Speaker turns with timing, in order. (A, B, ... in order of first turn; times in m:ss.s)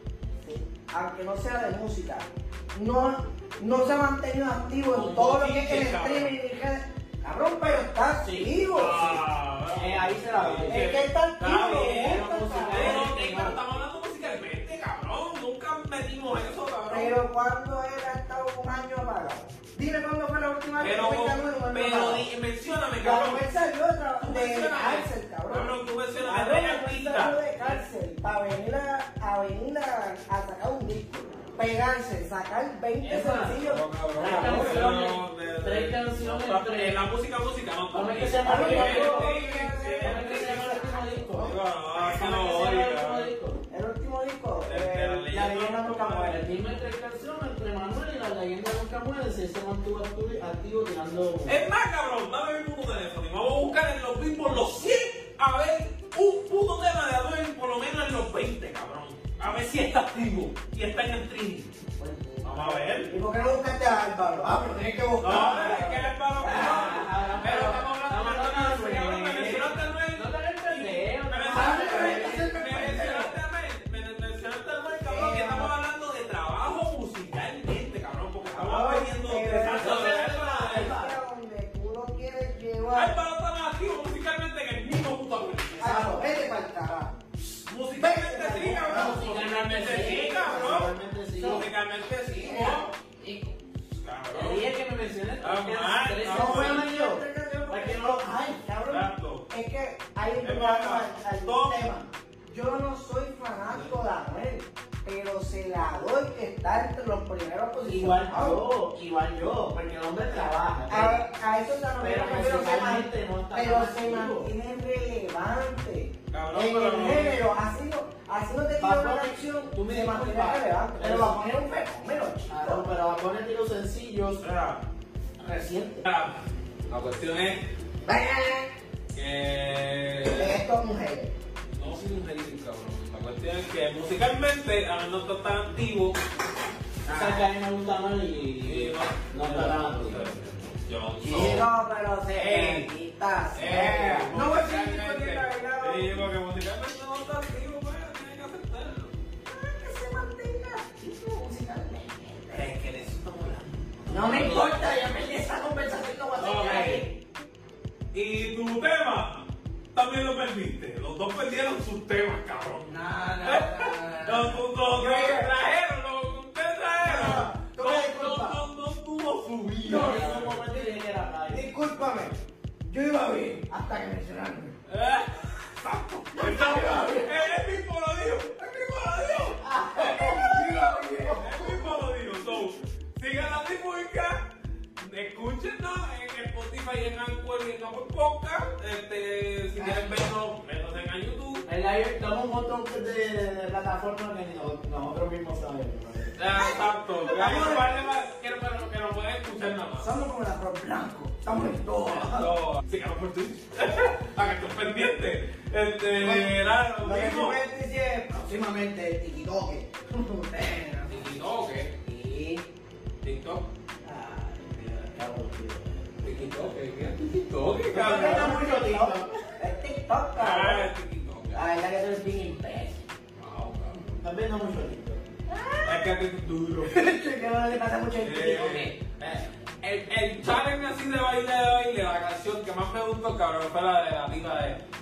0:00.5-0:09.1 A
0:04.9-0:06.3 B
0:08.2-0:09.2 C
0:08.7-0:17.2 B
0:09.7-0:10.9 C
0:10.7-0:13.1 A
0:11.9-0:13.6 C
0:16.9-0:22.3 A
0:20.8-0:23.4 B
0:23.0-0:35.0 A
0:24.2-0:27.8 B
0:33.0-0:37.0 C
0:33.6-0:43.3 B
0:37.9-0:43.6 C
0:38.4-0:41.5 A
0:43.7-0:46.5 A
0:44.6-0:46.4 B
0:46.2-0:51.6 C
0:51.5-1:01.7 B
1:02.0-1:07.0 A
1:02.4-1:03.1 B
1:05.2-1:21.0 B
1:05.3-1:05.6 C
1:06.4-1:12.6 C
1:11.5-1:13.3 A
1:15.1-1:15.7 A
1:18.4-1:23.1 A
1:19.8-1:21.2 C
1:22.9-1:26.2 B
1:25.8-1:27.2 A
1:27.6-1:32.9 B
1:27.9-1:29.2 A
1:28.6-1:31.6 C
1:29.9-1:30.7 A
1:32.3-1:33.4 A
1:33.9-1:34.7 B
1:34.3-1:38.6 C
1:35.4-1:36.9 B
1:36.3-1:48.6 A
1:38.9-1:39.5 B
1:40.4-1:41.9 B
1:47.8-1:51.2 C
1:50.9-2:02.8 A
1:52.0-1:54.5 C
1:56.3-1:57.4 B
1:58.8-2:01.5 C
2:02.5-2:04.5 C
2:04.4-2:04.8 B
2:05.4-2:06.0 C
2:06.0-2:07.6 B
2:08.0-2:08.7 A
2:09.1-2:10.6 B
2:10.3-2:11.3 A
2:11.7-2:16.2 B
2:17.0-2:20.3 C
2:17.1-2:17.4 A
2:18.6-2:21.7 B
2:21.2-2:26.3 A
2:22.3-2:22.9 B
2:23.5-2:29.1 B
2:29.5-2:32.7 A
2:32.5-2:34.8 B
2:34.1-2:37.1 A
2:36.4-2:37.0 B
2:38.1-2:39.4 B
2:39.9-2:50.6 B
2:42.8-2:45.5 A
2:47.0-2:48.6 A
2:49.8-2:51.7 C
2:49.8-2:50.9 A
2:51.5-2:52.3 A
2:52.8-2:54.7 A
2:54.9-3:04.4 B
2:56.3-2:57.3 A
2:59.7-3:02.0 A
2:59.8-3:00.3 C
3:05.0-3:11.6 B
3:09.8-3:10.2 A
3:11.6-3:16.4 C
3:16.4-3:20.1 B
3:16.6-3:18.0 A
3:20.0-3:22.5 A
3:22.1-3:27.6 B
3:26.2-3:31.2 A
3:31.1-3:31.9 B
3:32.0-3:32.6 A
3:33.2-3:33.7 B
3:34.0-3:36.0 A
3:36.2-3:38.5 B
3:37.9-3:39.3 C
3:37.9-3:40.9 A
3:40.4-3:41.7 B
3:41.5-3:43.0 A
3:43.4-3:44.2 B
3:44.2-3:45.3 C
3:45.5-3:46.0 A
3:45.8-3:47.0 B
3:46.8-3:48.9 A
3:48.2-3:49.0 B
3:49.2-3:49.4 C
3:49.8-3:54.8 B